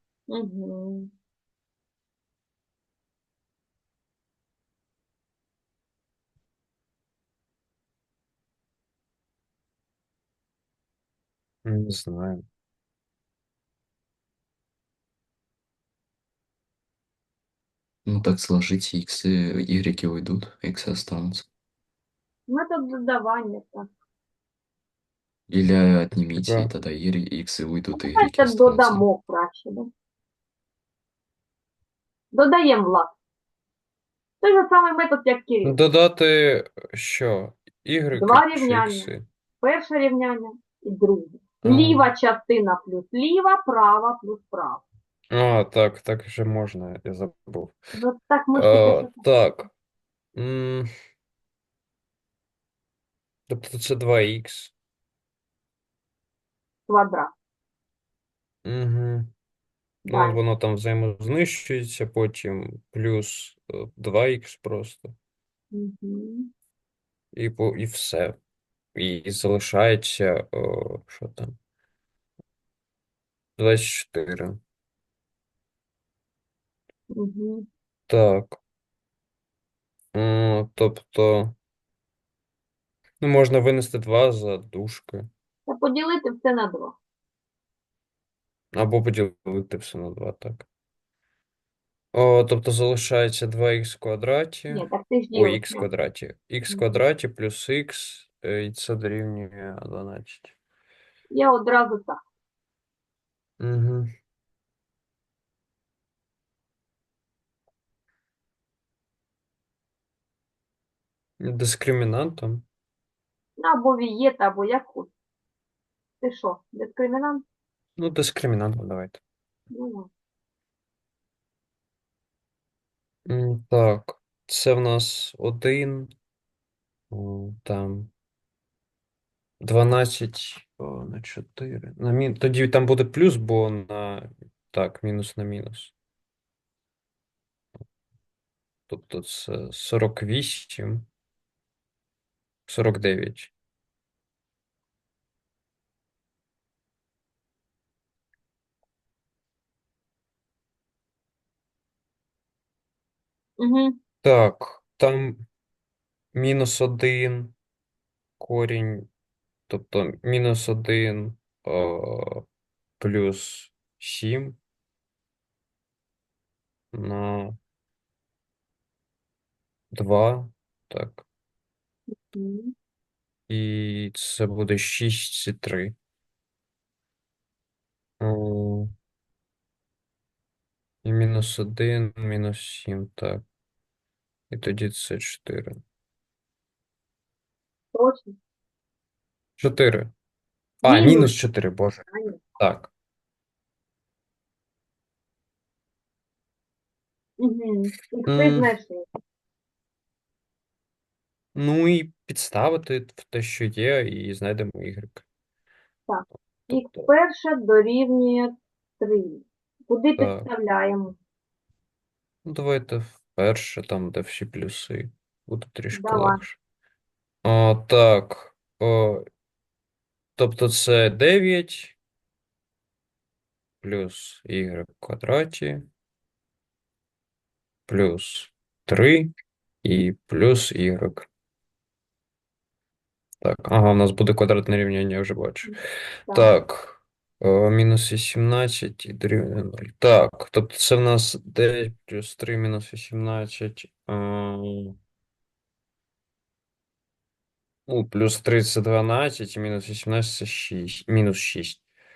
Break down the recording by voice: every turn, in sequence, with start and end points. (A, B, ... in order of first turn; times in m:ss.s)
0:00.3-0:01.1 A
0:11.6-0:12.4 B
0:18.1-0:21.5 C
0:22.5-0:23.9 A
0:25.5-0:29.0 C
0:26.4-0:26.7 B
0:27.9-0:29.9 A
0:32.3-0:33.1 A
0:34.4-0:35.8 A
0:35.6-0:39.2 B
0:38.1-0:39.1 A
0:39.6-0:44.8 A
0:41.6-0:42.1 B
0:45.3-0:47.8 B
0:48.0-0:49.2 A
0:48.6-0:49.7 B
0:50.4-0:50.9 B
0:53.5-0:54.7 B
0:56.9-0:57.3 A
0:58.6-0:59.3 B
1:00.1-1:00.4 A
1:00.1-1:05.2 B
1:05.7-1:06.5 A
1:07.3-1:08.4 B
1:09.0-1:11.6 B
1:13.6-1:14.6 B
1:17.1-1:17.7 A
1:18.1-1:18.6 B
1:20.1-1:21.6 B
1:23.2-1:25.3 B
1:25.7-1:27.0 A
1:28.7-1:30.7 B
1:32.1-1:40.5 B
1:34.7-1:35.9 A
1:41.3-1:42.2 A
1:43.6-1:44.1 B
1:51.4-1:52.6 B
1:53.6-1:55.1 A
1:56.2-1:57.4 A
1:58.0-1:59.2 B
1:59.7-2:00.1 A
2:03.3-2:06.1 B
2:07.1-2:08.1 B
2:09.6-2:15.9 B
2:18.9-2:21.1 B
2:22.7-2:23.5 B
2:33.6-2:34.0 A
2:34.2-2:35.4 B
2:36.3-2:37.6 B
2:38.4-2:39.1 B
2:39.7-2:42.4 B
2:43.0-2:44.6 B
2:46.9-2:47.6 B
2:49.9-2:51.2 B
2:52.2-2:52.7 A
2:53.5-2:56.0 B
2:58.2-2:58.9 B
3:01.0-3:03.4 B
3:04.5-3:05.8 B
3:07.9-3:08.4 A
3:09.6-3:10.1 B
3:10.8-3:11.3 A
3:10.8-3:12.9 B
3:12.1-3:12.4 A
3:17.4-3:19.0 A
3:18.3-3:18.7 B
3:21.6-3:25.2 B
3:26.1-3:31.2 A
3:26.7-3:27.1 B
3:30.2-3:30.5 B
3:32.4-3:36.6 B
3:35.9-3:36.4 A
3:37.4-3:39.3 B
3:40.4-3:42.0 B
3:43.8-3:45.9 B
3:47.9-3:51.3 B
3:53.4-3:55.7 B
3:56.3-4:05.0 B
4:07.9-4:11.8 B